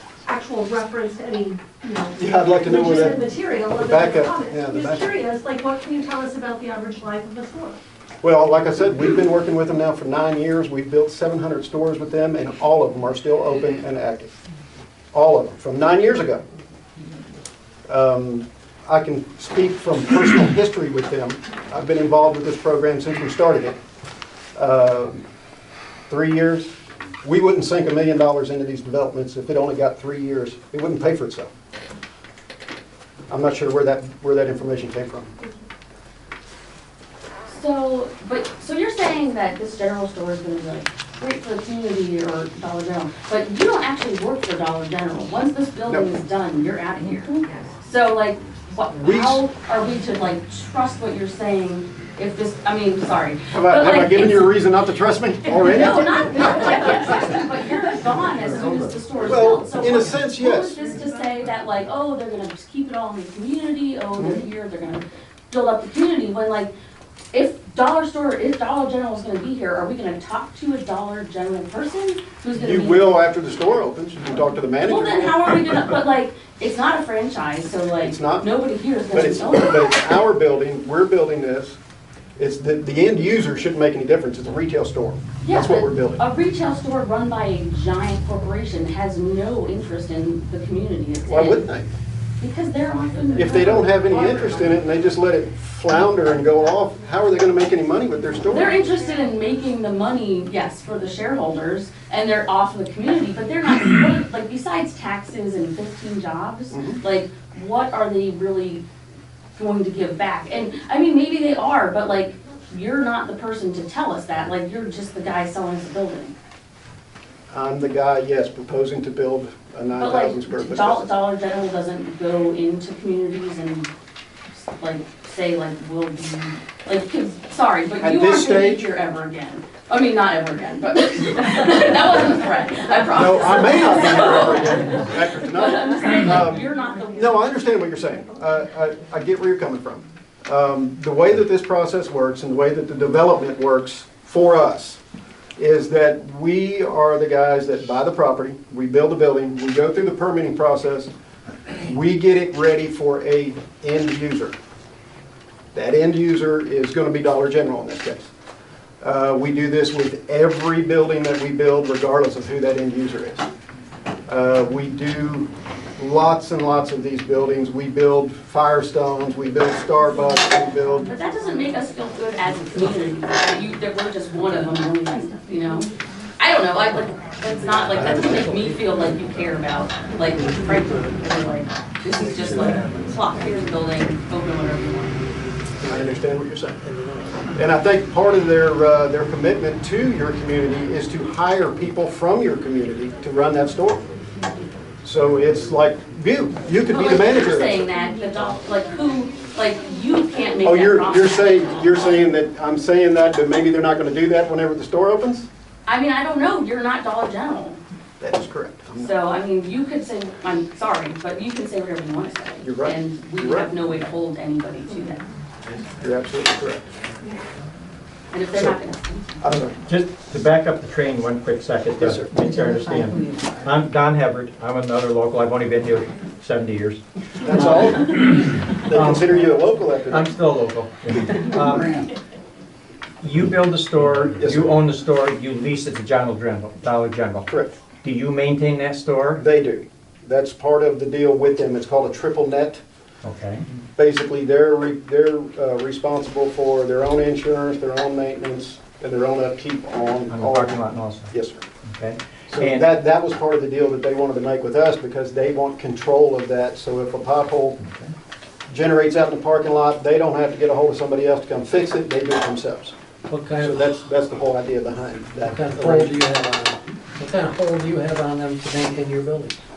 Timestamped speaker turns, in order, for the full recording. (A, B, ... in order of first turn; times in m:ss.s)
0:00.2-0:07.8 A
0:02.2-0:05.2 B
0:08.2-0:14.3 B
0:15.1-0:16.4 B
0:17.9-0:23.8 B
0:24.6-0:25.2 B
0:26.1-0:26.7 B
0:27.2-0:31.5 B
0:33.3-0:35.3 B
0:37.5-0:54.6 C
0:49.0-0:49.4 B
0:53.5-0:57.1 B
0:55.5-1:06.7 C
0:59.2-1:00.8 B
1:04.2-1:04.4 B
1:07.3-1:13.1 C
1:12.6-1:15.8 B
1:14.8-1:19.8 C
1:18.0-1:18.5 B
1:19.1-1:21.8 B
1:22.4-1:26.2 B
1:25.4-1:31.6 C
1:31.3-1:31.9 B
1:32.4-1:34.6 C
1:33.4-1:38.8 B
1:38.5-1:48.8 C
1:46.7-1:47.0 B
1:49.6-1:56.4 C
1:57.5-2:01.0 B
2:00.0-2:03.9 C
2:04.8-2:17.3 C
2:08.0-2:08.9 B
2:13.2-2:25.0 B
2:25.6-2:31.1 B
2:31.8-2:34.6 B
2:35.7-2:38.3 B
2:39.0-2:43.5 B
2:44.3-2:51.1 B
2:51.1-3:05.2 C
2:57.9-2:58.5 B
2:58.0-2:58.6 D
3:05.8-3:06.8 B
3:07.6-3:14.0 B
3:15.0-3:17.9 B
3:16.9-3:21.4 C
3:20.6-3:25.5 B
3:25.9-3:27.8 C
3:28.2-3:29.1 B
3:29.0-3:35.2 C
3:32.6-3:33.7 B
3:36.0-3:36.9 B
3:38.3-3:39.3 C
3:39.4-3:39.8 B
3:39.8-3:49.4 E
3:42.0-3:42.3 B
3:47.4-3:50.3 B
3:50.1-3:52.0 E
3:53.2-3:57.5 E
3:54.4-3:54.7 B
3:57.5-3:57.8 B
3:58.0-3:59.4 E
3:59.4-4:02.8 B
4:03.2-4:03.6 E
4:04.0-4:11.6 B
4:10.3-4:11.3 E
4:11.9-4:12.8 E
4:12.5-4:17.8 B
4:18.7-4:22.9 B
4:23.3-4:23.8 D
4:23.6-4:26.2 B
4:25.4-4:29.6 D